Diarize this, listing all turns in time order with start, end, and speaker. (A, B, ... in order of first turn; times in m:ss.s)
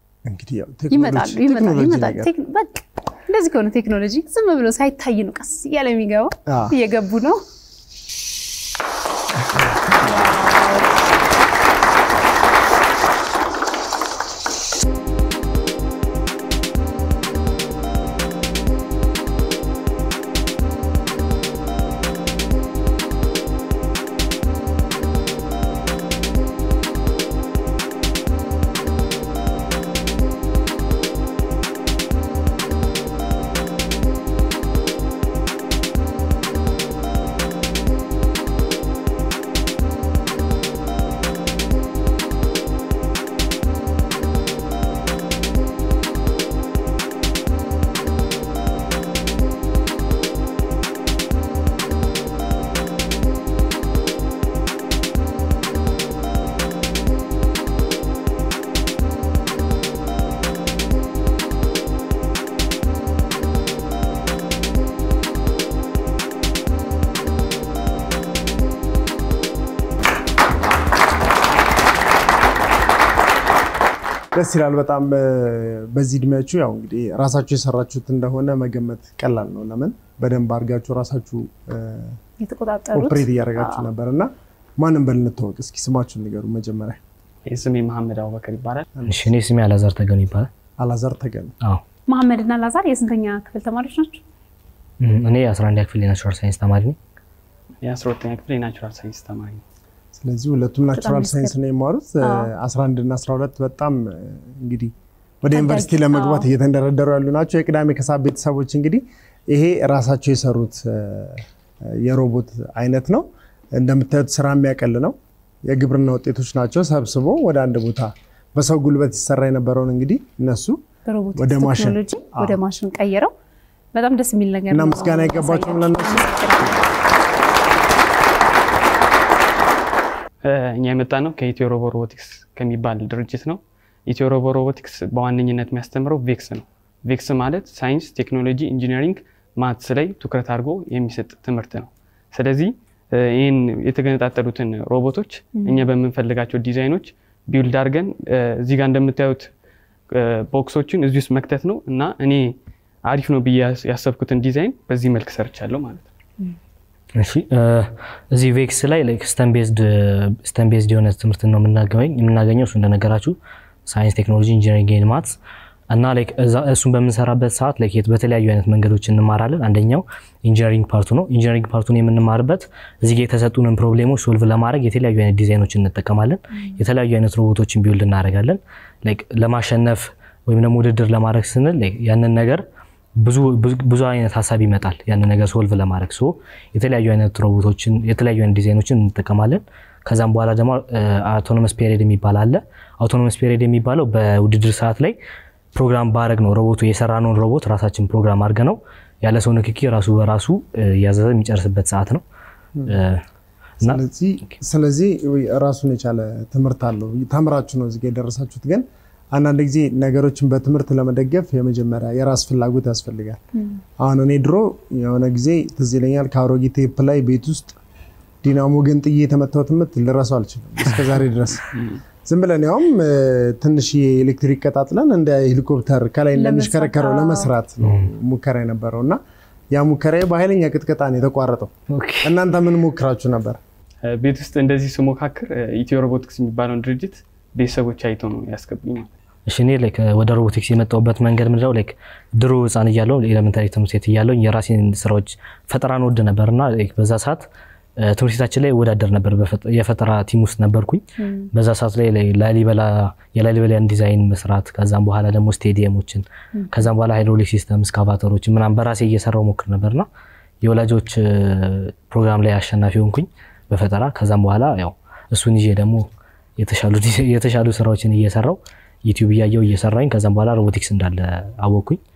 0:00.3-0:02.3 A
0:00.9-0:07.4 B
0:06.5-0:06.8 A
0:10.0-0:10.9 B
1:14.3-1:22.2 A
1:22.4-1:23.8 B
1:22.9-1:27.0 A
1:27.5-1:28.8 C
1:29.1-1:30.5 D
1:30.8-1:31.5 A
1:32.1-1:34.2 B
1:35.0-1:37.0 D
1:37.8-1:39.6 C
1:40.1-1:53.2 A
1:40.9-1:41.6 B
1:42.2-1:42.5 B
1:45.5-1:46.5 B
1:53.8-1:55.1 A
1:55.7-2:00.8 A
2:01.1-2:03.3 B
2:01.4-2:02.6 A
2:03.9-2:06.9 B
2:04.7-2:06.8 A
2:10.4-2:29.5 C
2:25.6-2:25.8 B
2:30.1-2:36.1 C
2:37.2-2:45.4 D
2:45.9-3:02.6 D
3:03.2-3:15.2 D
3:15.8-3:22.2 D
3:22.9-3:23.2 D
3:23.8-3:33.4 A
3:33.6-3:33.8 B
3:34.0-3:37.8 A
3:38.4-3:41.6 A
3:42.3-3:49.2 A
3:46.4-3:47.5 B
3:49.7-3:51.7 A
3:51.9-3:52.4 D
3:52.2-3:53.6 A
3:54.0-3:59.1 C
3:59.5-4:07.5 D
4:08.0-4:20.1 D
4:11.2-4:11.5 B
4:20.6-4:26.1 D
4:26.6-4:32.0 D